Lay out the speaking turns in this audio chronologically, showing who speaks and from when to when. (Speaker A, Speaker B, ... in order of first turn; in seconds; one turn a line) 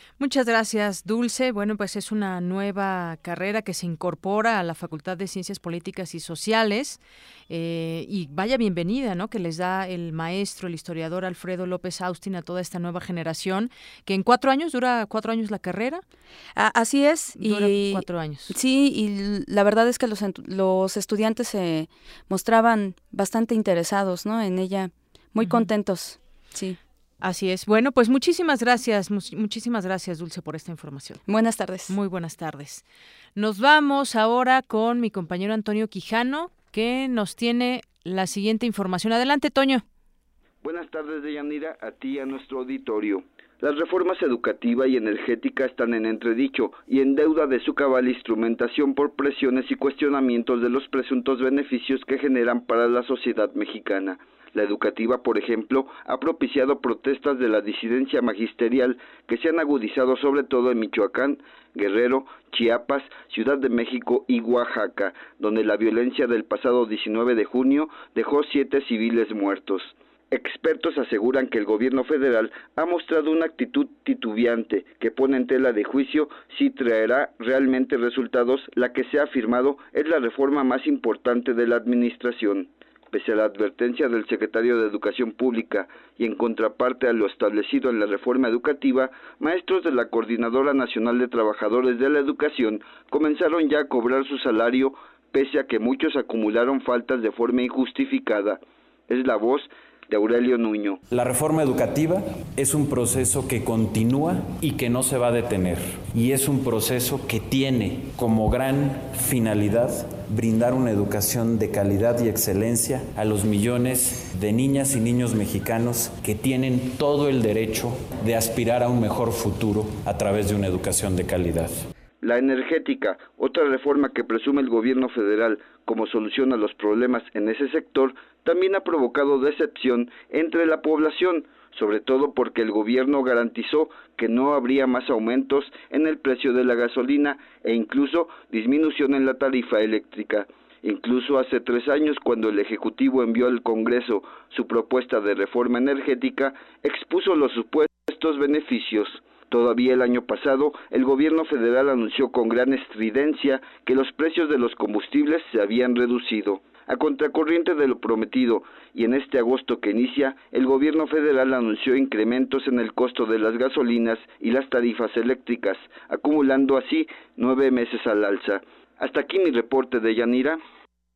Speaker A: 0.2-16.0
Speaker B: 16.6-26.8
Speaker A: 17.4-18.5
Speaker A: 25.4-25.7
Speaker A: 27.2-31.2
Speaker B: 31.3-31.9
Speaker A: 31.9-32.8
Speaker A: 33.4-39.8
Speaker C: 40.6-98.6
Speaker C: 99.1-101.0
Speaker D: 101.1-121.9
Speaker C: 122.2-170.6